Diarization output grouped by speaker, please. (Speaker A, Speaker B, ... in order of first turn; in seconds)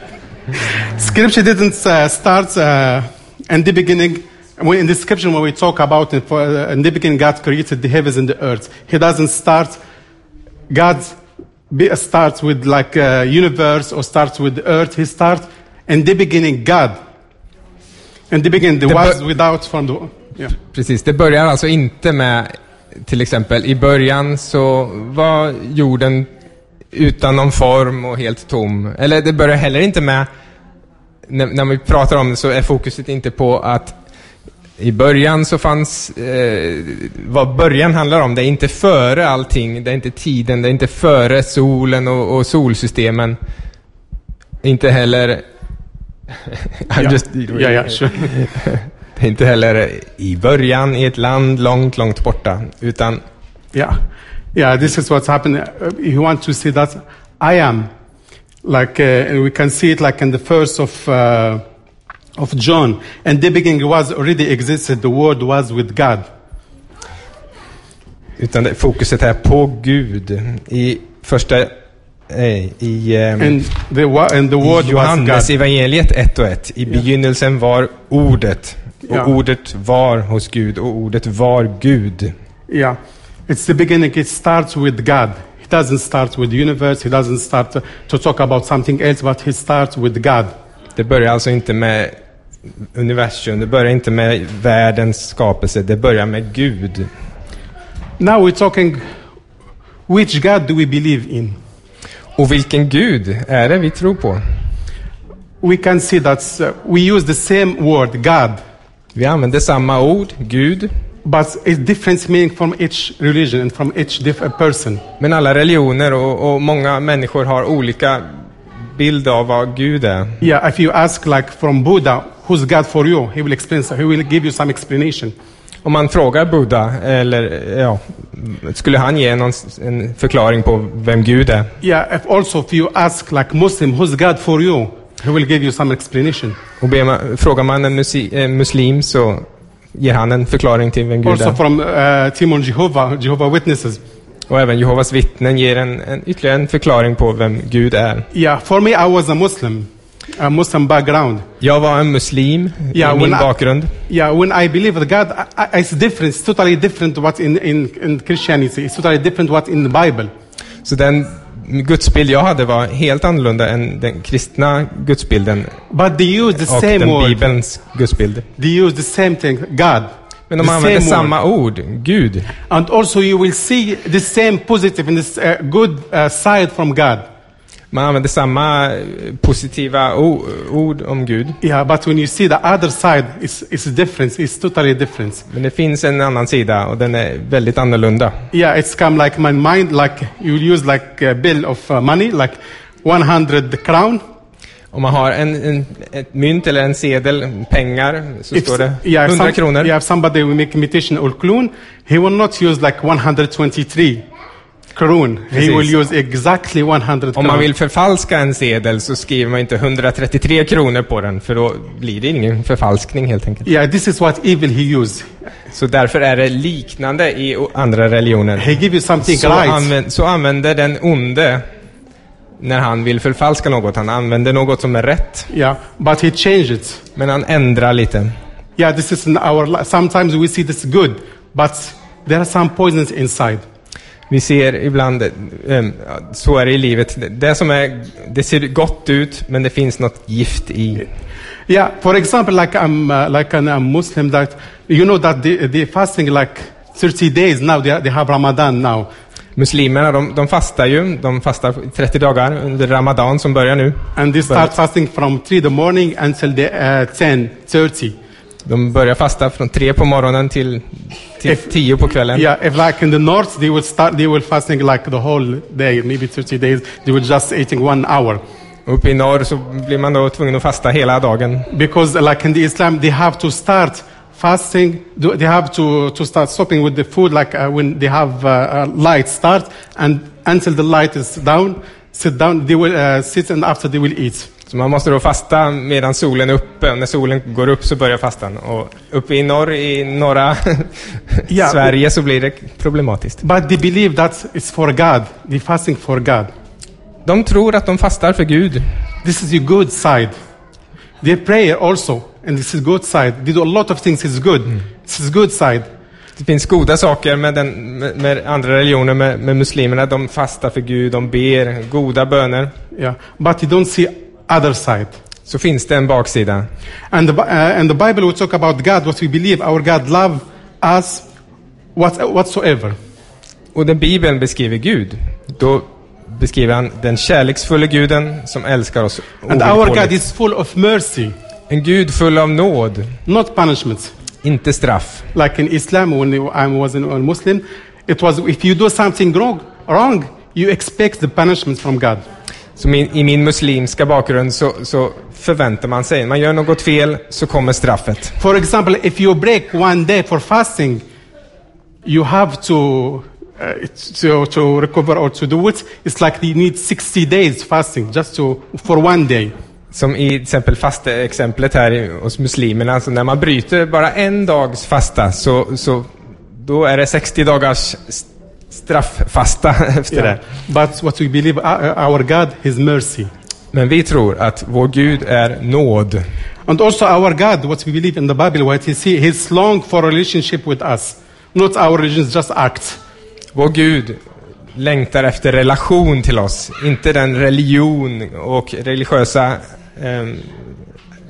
Speaker A: 0.7-9.8, 10.7-11.2, 11.7-16.9, 18.3-20.5, 46.9-48.4, 53.7-54.0, 54.5-57.9, 58.6-61.6, 62.4-66.2, 73.4-75.5, 79.0-79.3, 82.7-83.0, 83.5-90.5, 98.2-99.0, 100.1-101.5, 105.6-108.6, 111.2-115.0, 120.4-125.3, 131.8-136.6, 141.2-144.0, 148.3-151.4, 152.9-153.5, 154.1-160.3, 165.9-167.5, 168.6-170.1, 170.6-171.3, 172.7-177.2, 181.6-185.4, 188.5-194.2, 198.5-204.2, 204.9-207.7, 213.7-215.3, 218.6-219.9, 225.5-227.0, 228.8-233.6, 241.7-249.1, 254.2-258.1, 262.3-268.4, 271.7-284.5, 291.5-291.9, 293.4-296.5, 299.2-300.3, 301.2-305.9, 312.9-315.2, 317.1-321.3, 321.9-322.9, 329.5-331.3, 333.2-334.1, 335.3-342.2, 348.4-351.0, 352.0-359.5, 370.1-373.3, 376.7-383.0
Speaker B: 18.9-19.2, 20.6-26.3, 26.9-30.3, 31.3-33.9, 34.8-43.4, 44.6-45.4, 46.3-53.2, 68.4-71.7, 72.3-73.6, 74.6-82.3, 91.0-92.1, 92.9-97.1, 102.4-104.4, 109.1-110.9, 115.2-118.2, 118.9-120.4, 125.8-131.7, 136.8-141.6, 144.5-148.3, 151.6-153.9, 160.8-165.8, 166.5-168.5, 170.5-172.5, 177.9-181.6, 185.5-188.3, 194.9-199.9, 205.5-205.9, 207.3-213.7, 215.7-221.6, 222.6-225.5, 227.2-228.3, 234.3-241.1, 249.6-254.7, 258.6-262.5, 268.9-271.7, 284.7-293.4, 297.2-298.9, 306.4-312.7, 315.4-316.7, 323.7-330.2, 331.7-333.1, 334.4-335.2, 342.8-348.4, 359.9-370.4, 373.7-376.2, 383.5-384.2, 384.7-390.8